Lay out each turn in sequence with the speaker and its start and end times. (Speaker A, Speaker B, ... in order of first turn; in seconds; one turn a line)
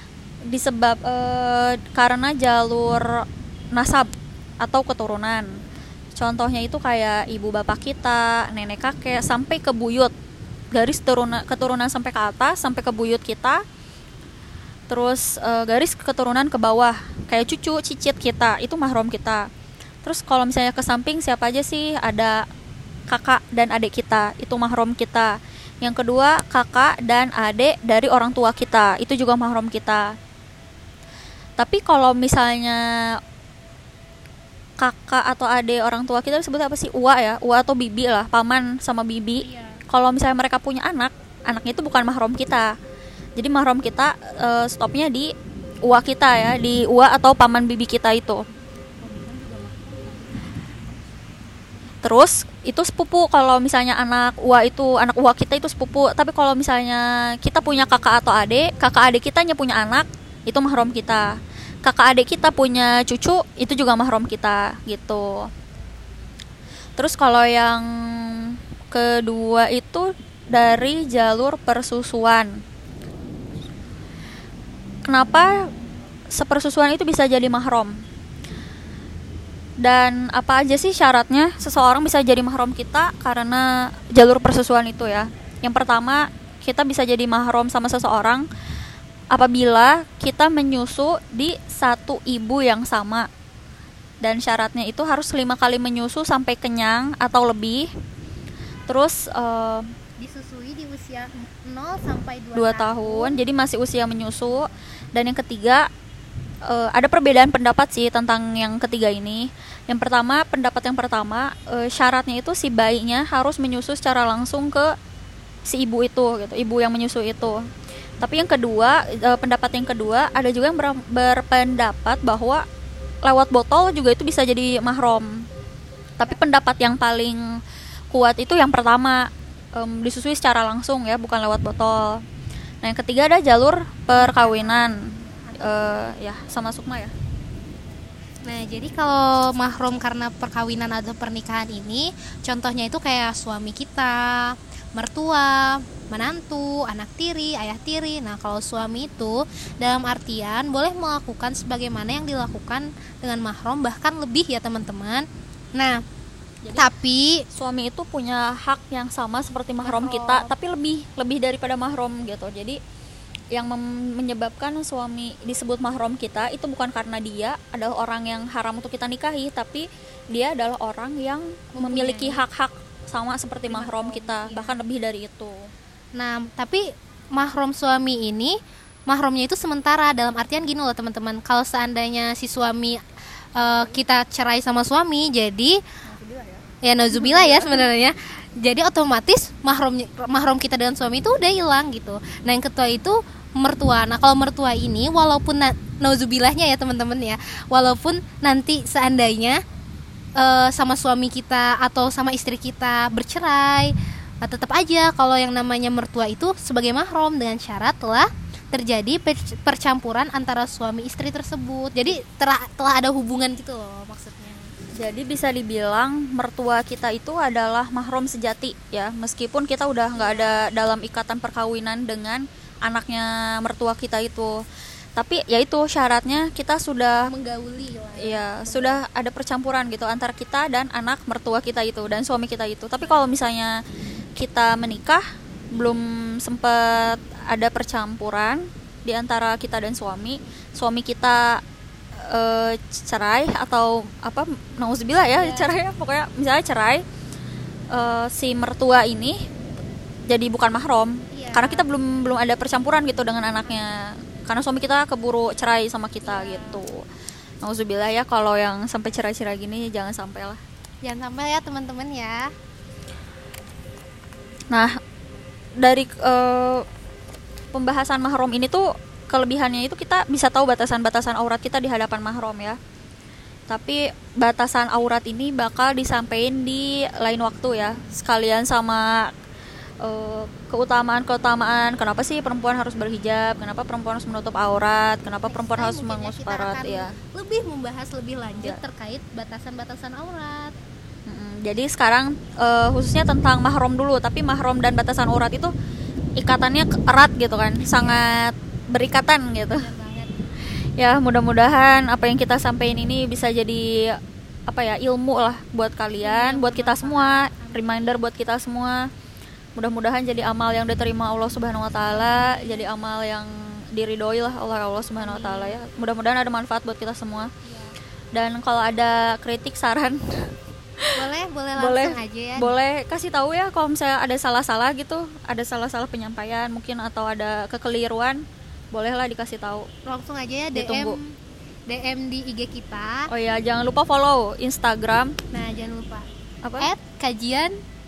Speaker A: 0.5-3.0
Speaker A: 3.7-5.5
Speaker A: 6.1-10.1
Speaker A: 10.7-13.6
Speaker A: 14.9-19.5
Speaker A: 20.0-22.4
Speaker A: 23.1-30.1
Speaker A: 31.6-32.8
Speaker A: 34.8-42.7
Speaker B: 39.4-39.8
Speaker A: 43.4-45.3
Speaker A: 45.9-48.4
Speaker B: 49.0-50.2
Speaker A: 52.0-61.2
Speaker A: 61.8-65.5
Speaker A: 67.0-72.6
Speaker A: 75.0-75.5
Speaker A: 76.3-78.0
Speaker A: 79.8-88.5
Speaker A: 89.3-93.3
Speaker A: 94.2-97.9
Speaker A: 98.9-99.8
Speaker B: 100.2-103.4
Speaker A: 102.5-105.8
Speaker A: 106.7-114.9
Speaker A: 115.7-117.6
Speaker A: 118.2-122.6
Speaker A: 123.2-125.4
Speaker A: 126.2-127.4
Speaker A: 128.1-129.2
Speaker A: 129.8-132.2
Speaker A: 132.8-134.9
Speaker B: 134.1-136.3
Speaker A: 135.6-137.1
Speaker B: 138.4-156.0
Speaker A: 156.6-156.9
Speaker B: 156.8-157.4
Speaker A: 157.5-162.8
Speaker B: 159.8-160.5
Speaker A: 163.5-175.6
Speaker B: 171.8-172.4
Speaker B: 173.7-174.8
Speaker B: 176.2-178.5
Speaker B: 179.1-183.0
Speaker B: 183.6-185.8
Speaker A: 183.6-184.0
Speaker A: 186.1-187.9
Speaker B: 186.8-199.6
Speaker B: 200.4-214.7
Speaker A: 215.0-224.6
Speaker B: 220.1-220.7
Speaker A: 225.2-227.3
Speaker B: 227.2-229.0
Speaker A: 228.2-233.8
Speaker A: 234.4-235.2
Speaker A: 235.7-241.6
Speaker A: 242.3-247.0
Speaker B: 245.3-245.7
Speaker A: 247.9-249.4
Speaker A: 250.3-257.0
Speaker B: 251.3-251.8
Speaker B: 256.2-256.8
Speaker A: 257.6-260.6
Speaker B: 261.0-262.5
Speaker A: 265.8-266.9
Speaker A: 267.7-272.8
Speaker A: 273.7-279.3
Speaker A: 280.0-287.1
Speaker B: 285.5-290.7
Speaker A: 291.3-295.7
Speaker A: 296.4-299.9
Speaker B: 297.9-298.4
Speaker B: 299.7-300.3
Speaker A: 301.0-309.1
Speaker B: 306.2-308.2
Speaker A: 309.8-317.5
Speaker B: 312.1-312.9
Speaker B: 315.1-315.8
Speaker B: 317.6-317.9
Speaker A: 318.3-320.2
Speaker B: 321.1-322.7
Speaker A: 321.8-328.4
Speaker A: 328.9-329.9
Speaker B: 330.1-331.3
Speaker A: 330.7-331.2
Speaker B: 331.9-333.3
Speaker A: 333.3-335.4
Speaker B: 335.5-336.3
Speaker A: 336.6-336.9
Speaker B: 336.8-337.8